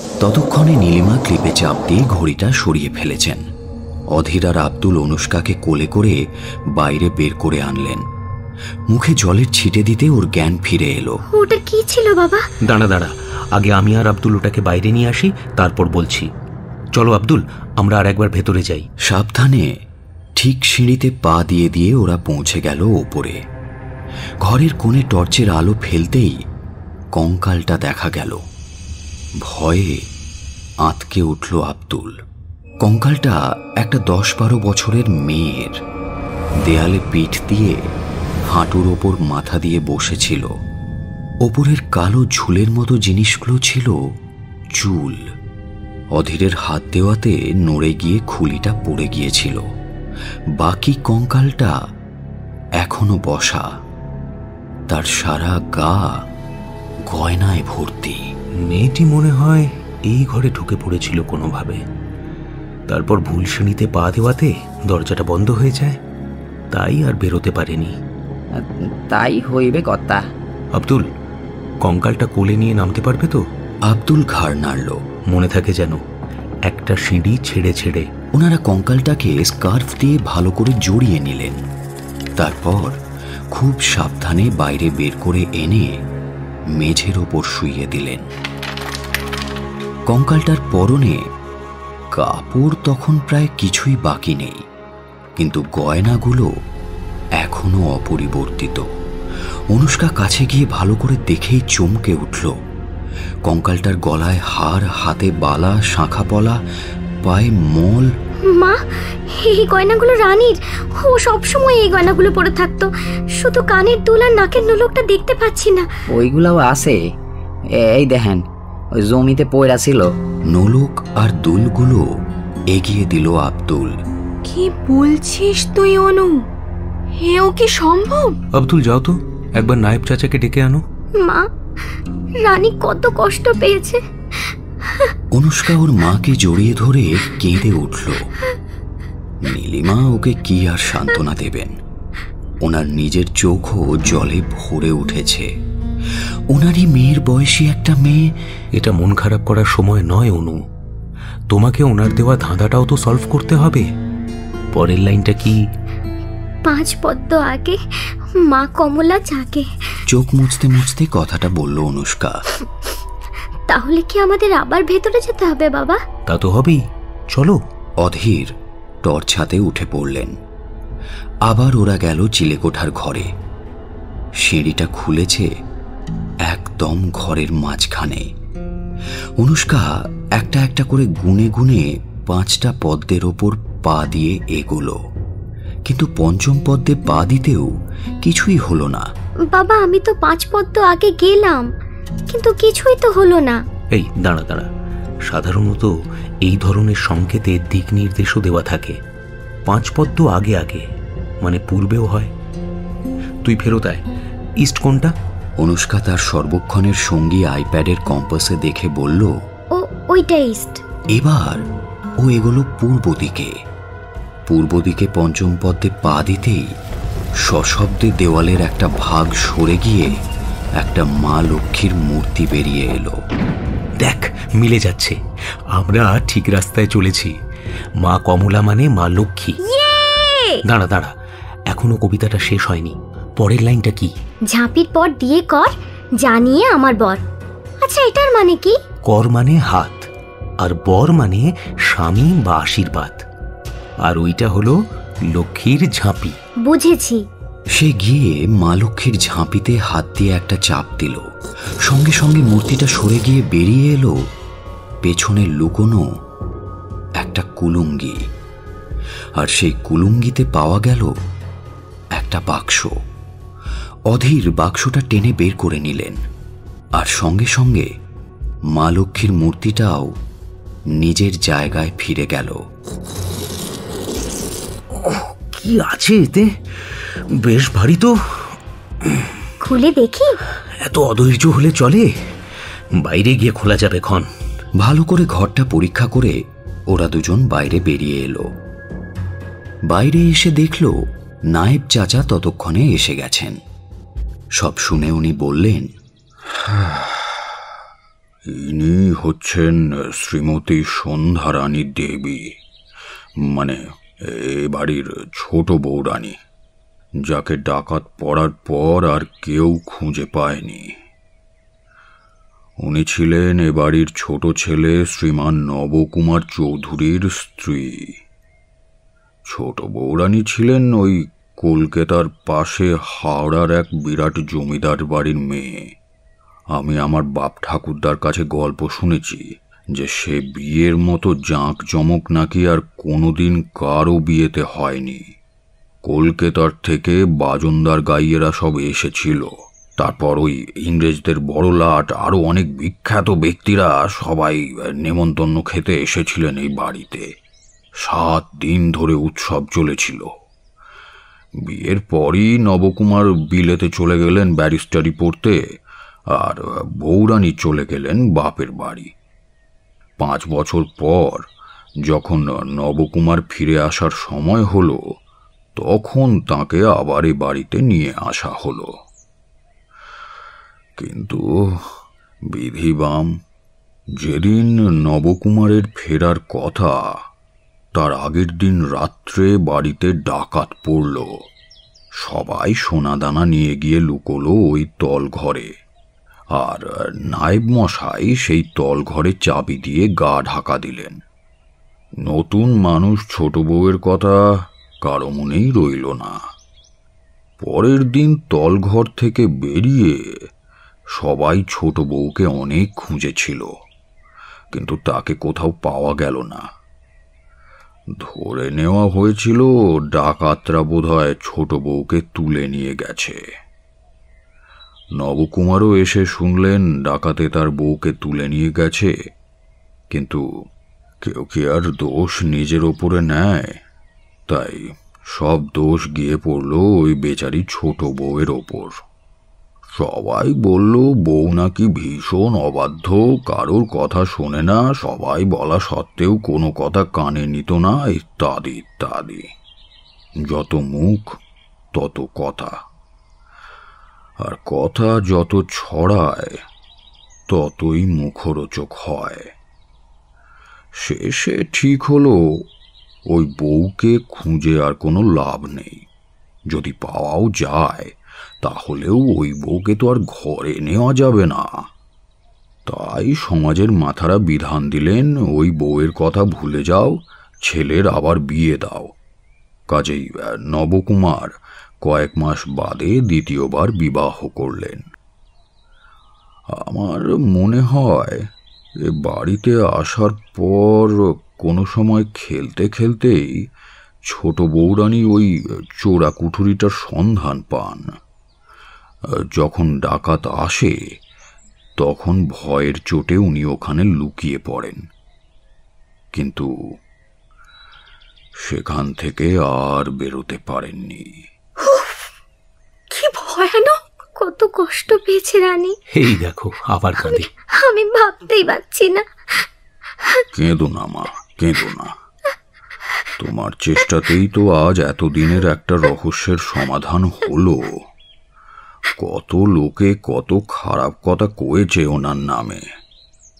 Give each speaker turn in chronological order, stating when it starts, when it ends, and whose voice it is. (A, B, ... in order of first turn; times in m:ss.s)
0:00.2-0:03.4 A
0:04.1-0:06.2 A
0:06.7-0:08.0 A
0:08.9-0:11.2 A
0:11.3-0:12.5 B
0:12.6-0:16.3 C
0:16.9-0:18.9 C
0:19.0-0:19.7 A
0:20.4-0:23.4 A
0:24.4-0:26.4 A
0:27.2-0:28.4 A
0:29.4-0:30.1 A
0:30.8-0:32.2 A
0:32.8-0:35.8 A
0:36.6-0:37.9 A
0:38.5-0:40.5 A
0:41.4-0:44.0 A
0:44.7-0:45.2 A
0:46.1-0:49.6 A
0:50.6-0:51.7 A
0:52.8-0:53.7 A
0:54.9-0:56.2 A
0:57.1-0:58.3 A
0:58.6-1:01.8 C
1:02.9-1:06.0 C
1:06.7-1:08.0 C
1:08.6-1:10.2 D
1:10.7-1:11.1 C
1:11.8-1:13.4 C
1:13.9-1:15.1 A
1:15.3-1:16.0 C
1:16.6-1:18.1 C
1:18.3-1:21.6 A
1:22.4-1:23.0 A
1:23.5-1:26.0 A
1:26.8-1:28.3 A
1:30.1-1:31.2 A
1:32.1-1:34.6 A
1:35.4-1:36.5 A
1:37.4-1:38.9 A
1:39.7-1:42.5 A
1:43.4-1:46.6 A
1:47.2-1:48.1 A
1:48.5-1:55.9 B
1:56.1-1:57.0 D
1:57.8-1:58.4 D
1:59.0-2:00.1 D
2:00.5-2:02.0 A
2:02.7-2:04.0 A
2:04.4-2:06.3 E
2:07.2-2:08.3 E
2:08.5-2:10.8 C
2:11.2-2:11.5 B
2:12.4-2:15.1 B
2:15.3-2:18.3 A
2:19.4-2:21.8 A
2:22.6-2:25.5 A
2:26.1-2:28.4 A
2:28.8-2:30.6 C
2:31.5-2:33.9 C
2:34.7-2:35.6 C
2:36.6-2:40.0 B
2:40.1-2:42.4 A
2:43.7-2:46.0 B
2:46.3-2:46.8 C
2:47.3-2:47.6 C
2:48.0-2:50.4 A
2:51.4-2:53.3 A
2:54.4-2:55.5 A
2:56.4-2:58.3 A
2:59.4-3:05.0 A
3:05.9-3:07.7 A
3:08.2-3:09.1 A
3:09.5-3:11.7 B
3:12.3-3:13.6 B
3:13.9-3:14.7 C
3:15.2-3:15.9 C
3:16.4-3:19.0 C
3:19.6-3:20.8 C
3:21.4-3:22.3 C
3:23.4-3:24.0 C
3:24.6-3:25.1 C
3:25.6-3:29.3 A
3:29.7-3:30.8 B
3:31.1-3:31.6 A
3:32.2-3:33.5 A
3:34.5-3:36.7 A
3:37.4-3:40.2 A
3:40.8-3:43.2 A
3:44.0-3:45.2 C
3:45.7-3:47.3 C
3:48.0-3:49.6 C
3:49.8-3:50.5 E
3:50.6-3:51.1 C
3:51.7-3:54.1 C
3:54.5-3:57.2 B
3:57.8-3:58.8 B
3:59.0-4:00.1 C
4:00.6-4:03.2 C
4:04.0-4:06.3 C
4:06.6-4:07.2 B
4:07.7-4:11.3 A
4:11.8-4:14.2 A
4:15.0-4:16.1 A
4:17.2-4:18.3 A
4:19.4-4:21.2 A
4:22.1-4:23.0 A
4:24.1-4:26.2 A
4:26.9-4:27.9 A
4:28.7-4:30.1 A
4:30.9-4:32.6 A
4:34.9-4:39.3 C
4:39.6-4:40.4 B
4:40.8-4:42.1 C
4:43.0-4:44.2 C
4:44.8-4:46.4 A
4:46.9-4:48.5 A
4:49.9-4:50.9 A
4:51.5-4:53.6 A
4:54.6-4:55.9 A
4:56.6-4:57.5 F
4:58.5-5:02.5 F
5:03.5-5:06.4 F
5:07.2-5:10.9 F
5:12.8-5:18.1 F
5:19.5-5:25.9 F
5:26.7-5:35.2 F
5:36.0-5:47.3 F
5:48.0-5:50.3 F
5:51.6-5:55.6 F
5:56.3-5:59.1 F
6:00.2-6:01.5 F
6:02.0-6:05.1 F
6:05.8-6:08.9 F
6:11.0-6:11.9 F
6:12.5-6:13.3 F
6:14.2-6:17.1 F
6:17.9-6:21.3 F
6:22.2-6:25.7 F
6:26.6-6:31.2 F
6:32.2-6:34.4 F
6:35.0-6:36.4 F
6:37.6-6:40.4 F
6:41.1-6:43.7 F
6:44.7-6:46.6 F
6:48.1-6:53.4 F
6:55.2-6:59.1 F
7:00.1-7:00.4 F
7:01.2-7:03.8 F
7:04.5-7:09.0 F
7:09.9-7:19.5 F
7:20.5-7:21.4 F
7:21.9-7:22.8 F
7:24.4-7:26.6 F
7:27.5-7:29.5 F
7:31.0-7:32.6 F
7:33.3-7:36.0 F
7:36.7-7:41.9 F
7:42.8-7:49.1 F
7:49.9-7:55.0 F
7:56.7-7:58.5 F
7:59.0-8:03.6 F
8:04.2-8:08.1 F
8:09.6-8:11.0 F
8:12.0-8:15.0 F
8:16.3-8:16.7 F
8:18.6-8:21.3 F
8:21.9-8:22.2 E
8:23.1-8:24.0 E
8:24.4-8:26.0 B
8:26.1-8:27.5 C
8:27.2-8:29.7 B
8:30.5-8:32.1 F
8:33.4-8:38.0 F
8:39.2-8:42.8 F